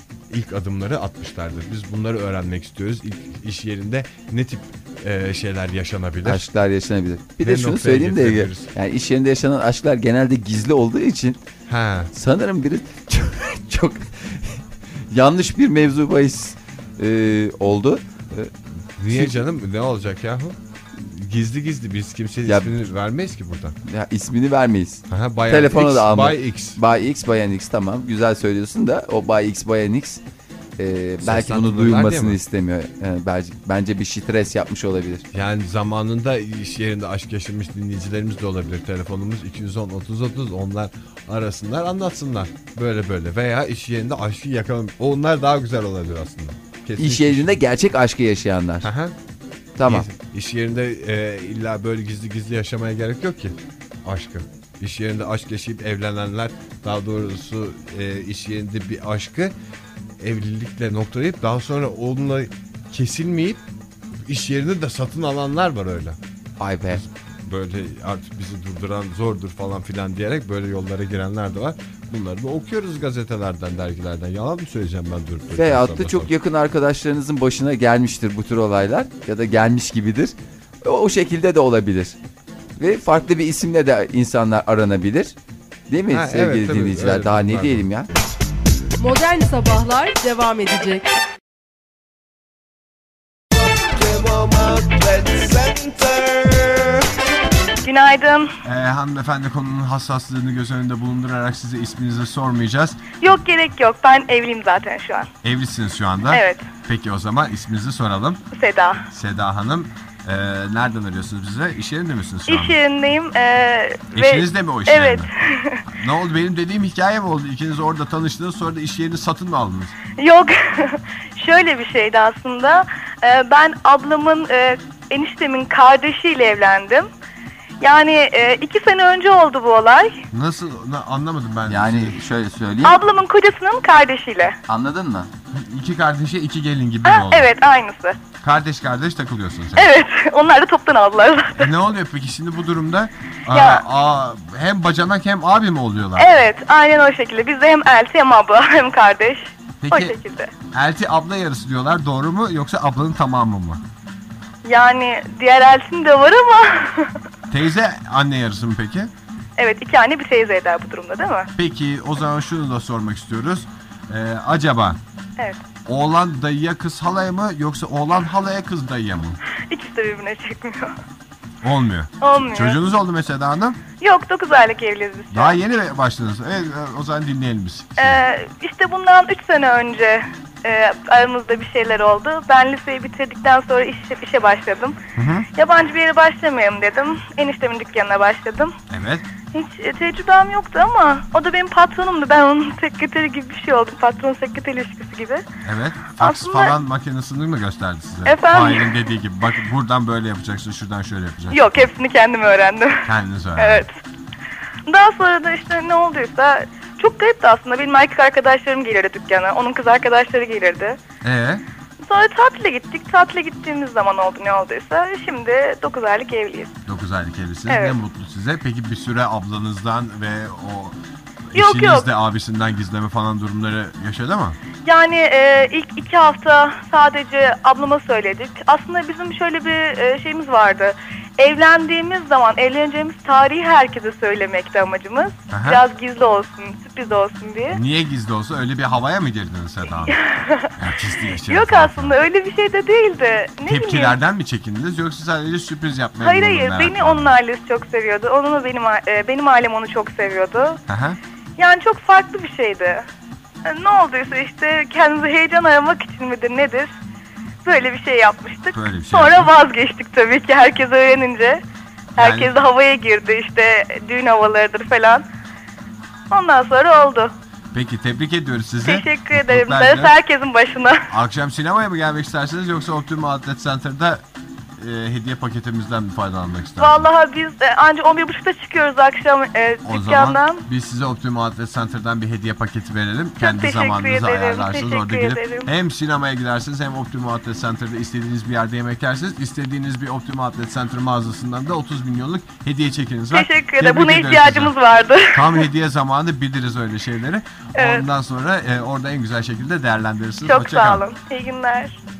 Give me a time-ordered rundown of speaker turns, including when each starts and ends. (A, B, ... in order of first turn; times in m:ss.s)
0:00.3-0:06.4 A
0:06.2-0:11.4 B
0:07.4-0:08.7 A
0:11.7-0:12.1 A
0:12.1-0:18.5 B
0:19.0-0:23.8 A
0:19.1-0:19.4 B
0:22.4-0:22.7 B
0:23.8-0:30.2 B
0:25.1-0:26.8 A
0:30.8-0:35.2 B
0:31.2-0:32.4 A
0:35.3-0:47.6 A
0:47.0-0:48.9 B
0:48.8-0:49.1 A
0:49.8-0:50.1 B
0:49.8-0:59.5 A
1:00.2-1:03.6 A
1:04.2-1:06.2 A
1:06.6-1:07.0 B
1:06.9-1:16.3 A
1:15.5-1:22.2 B
1:22.8-1:25.4 B
1:25.9-1:28.1 B
1:26.1-1:27.9 A
1:29.0-1:31.1 C
1:33.8-1:37.1 A
1:37.8-1:38.5 D
1:38.6-1:43.0 A
1:43.2-1:45.3 D
1:45.4-1:48.4 A
1:46.3-1:46.7 D
1:48.5-1:49.0 D
1:49.1-1:52.8 A
1:52.5-1:55.8 D
1:54.1-1:55.3 A
1:56.0-2:00.0 A
2:00.2-2:07.1 D
2:07.8-2:10.2 D
2:10.3-2:12.2 A
2:11.7-2:13.0 B
2:12.8-2:14.6 D
2:14.7-2:15.3 B
2:15.5-2:17.5 A
2:17.0-2:18.2 D
2:18.4-2:19.9 A
2:19.8-2:21.7 D
2:21.6-2:26.3 A
2:23.5-2:23.8 D
2:26.2-2:30.5 D
2:29.8-2:30.2 A
2:30.7-2:33.8 A
2:34.6-2:37.2 D
2:37.5-2:39.1 A
2:39.6-2:41.5 D
2:41.6-2:45.0 A
2:45.4-2:45.6 D
2:45.9-2:49.4 A
2:49.7-2:51.0 D
2:51.6-2:53.8 A
2:52.2-2:52.8 D
2:54.0-2:55.6 D
2:55.3-2:58.2 A
2:58.0-3:05.0 D
3:05.2-3:05.5 A
3:05.6-3:08.7 D
3:08.9-3:09.3 A
3:09.5-3:15.4 D
3:15.6-3:21.7 A
3:16.2-3:16.7 D
3:18.2-3:18.9 D
3:21.5-3:23.9 D
3:23.0-3:23.8 A
3:24.9-3:31.0 D
3:31.2-3:31.6 A
3:32.0-3:36.7 D
3:36.8-3:41.0 A
3:37.7-3:38.0 D
3:41.5-3:44.6 A
3:41.5-3:42.0 D
3:44.8-3:57.8 D
3:55.5-3:55.8 A
3:57.7-4:00.2 A
4:00.1-4:00.7 D
4:00.8-4:02.2 A
4:01.4-4:04.1 D
4:03.7-4:07.4 A
4:06.2-4:10.8 D
4:10.9-4:11.2 A
4:11.6-4:13.1 D
4:13.6-4:16.9 D
4:17.6-4:21.6 D
4:18.7-4:19.5 A
4:22.2-4:25.2 D
4:22.2-4:22.5 A
4:26.3-4:27.3 D
4:27.7-4:30.2 A
4:28.8-4:31.1 D
4:31.1-4:34.2 A
4:34.8-4:37.1 A
4:36.8-4:40.6 D
4:39.8-4:54.7 A
4:43.4-4:45.7 D
4:53.3-4:55.6 D
4:55.3-5:01.0 A
4:57.8-4:58.0 D
5:00.4-5:02.0 D